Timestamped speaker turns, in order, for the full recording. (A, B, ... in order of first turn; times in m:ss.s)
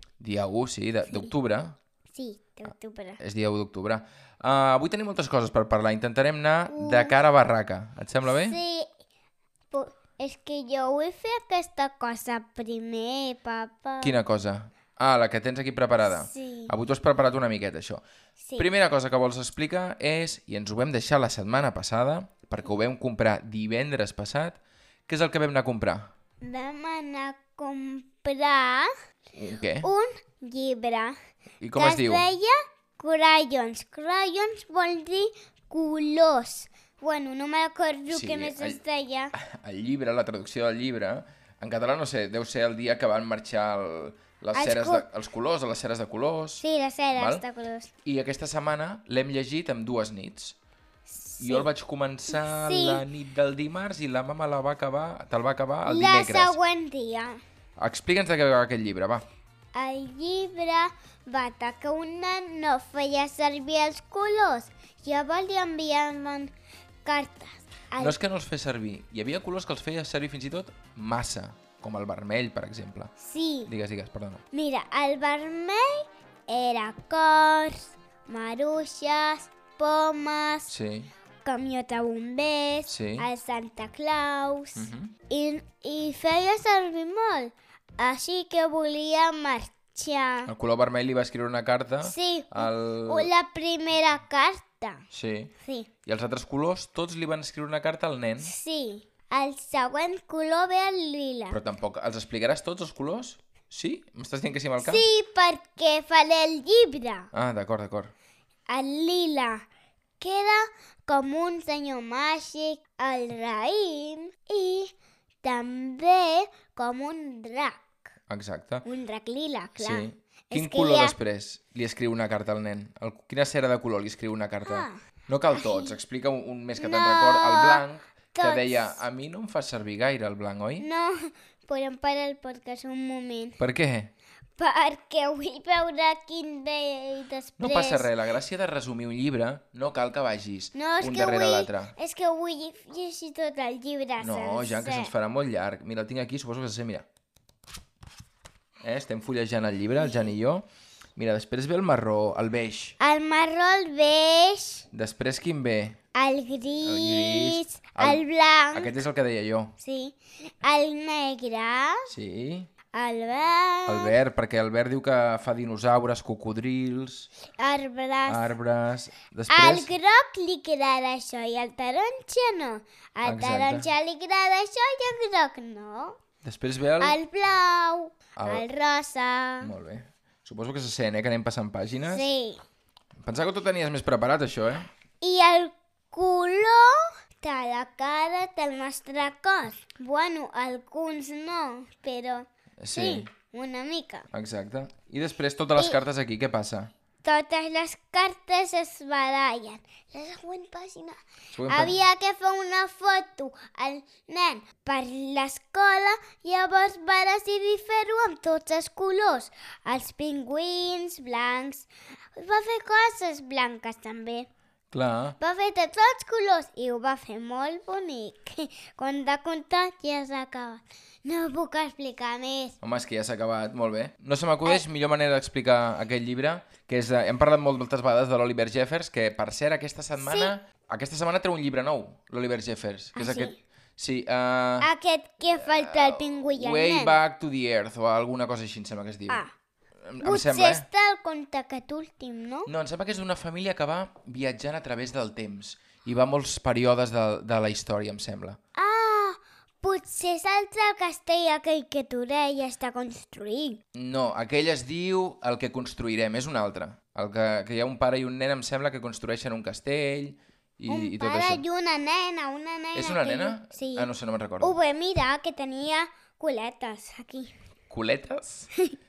0:00.2-0:01.8 A
0:02.1-0:03.2 B
0:03.2-0:08.6 A
0:06.7-0:07.2 B
0:08.3-0:08.9 B
0:09.7-0:14.2 B
0:14.0-0:18.0 A
0:16.2-0:16.7 B
0:18.4-0:18.7 B
0:18.6-0:26.1 A
0:26.4-0:28.9 B
0:29.3-0:29.9 A
0:29.8-0:31.1 B
0:31.6-0:32.2 A
0:31.7-0:39.3 B
0:38.1-0:38.8 A
0:39.3-0:46.6 A
0:44.5-0:45.0 B
0:46.6-0:47.9 B
0:47.1-0:47.4 A
0:48.0-0:50.6 A
0:51.1-0:51.7 B
0:51.4-0:56.6 A
0:52.3-0:53.0 B
0:55.8-0:57.4 B
0:57.8-0:59.2 A
0:59.7-1:06.5 B
1:07.0-1:08.2 B
1:08.0-1:13.1 A
1:13.2-1:13.7 B
1:13.7-1:14.4 A
1:14.5-1:20.7 B
1:20.7-1:21.1 A
1:21.4-1:30.5 B
1:22.9-1:23.3 A
1:24.8-1:25.1 A
1:30.5-1:33.3 A
1:32.0-1:35.0 B
1:35.1-1:35.5 A
1:35.6-1:35.9 B
1:36.0-1:38.5 A
1:38.4-1:41.6 B
1:41.5-1:45.0 A
1:44.8-1:47.3 B
1:47.3-1:48.1 A
1:48.7-1:49.7 B
1:50.2-1:57.8 B
1:58.3-1:58.8 A
1:58.8-2:01.2 B
1:59.8-2:10.8 A
2:04.6-2:05.0 B
2:05.5-2:05.9 B
2:06.8-2:07.8 B
2:08.3-2:09.0 B
2:10.8-2:13.6 B
2:13.6-2:14.1 A
2:14.6-2:18.1 B
2:17.6-2:21.9 A
2:20.7-2:25.1 B
2:24.2-2:27.0 A
2:28.8-2:30.6 A
2:30.0-2:30.3 B
2:31.2-2:33.0 A
2:33.0-2:34.8 B
2:34.9-2:36.0 A
2:36.1-2:38.9 B
2:36.8-2:39.7 A
2:39.8-2:42.1 B
2:42.1-2:42.7 A
2:42.9-2:44.2 B
2:43.9-2:47.3 A
2:47.6-2:48.5 B
2:48.2-2:49.9 A
2:49.5-2:56.2 B
2:53.2-2:53.9 A
2:56.4-2:57.2 A
2:57.0-2:59.7 B
2:58.4-2:58.6 A
2:59.6-3:02.2 A
3:02.1-3:02.6 B
3:03.2-3:04.9 A
3:05.2-3:14.3 B
3:12.8-3:13.3 A
3:14.3-3:16.9 A
3:17.2-3:34.5 B
3:21.5-3:22.0 A
3:34.9-3:35.4 A
3:35.4-3:42.8 B
3:42.8-3:54.9 A
3:50.2-3:50.5 B
3:53.1-3:53.5 B
3:54.8-3:57.2 B
3:55.5-3:59.4 A
4:00.0-4:00.8 A
4:00.2-4:02.7 B
4:02.6-4:08.6 A
4:08.8-4:13.8 B
4:13.9-4:21.6 A
4:20.9-4:24.1 B
4:22.9-4:24.8 A
4:24.6-4:27.5 B
4:27.9-4:28.7 A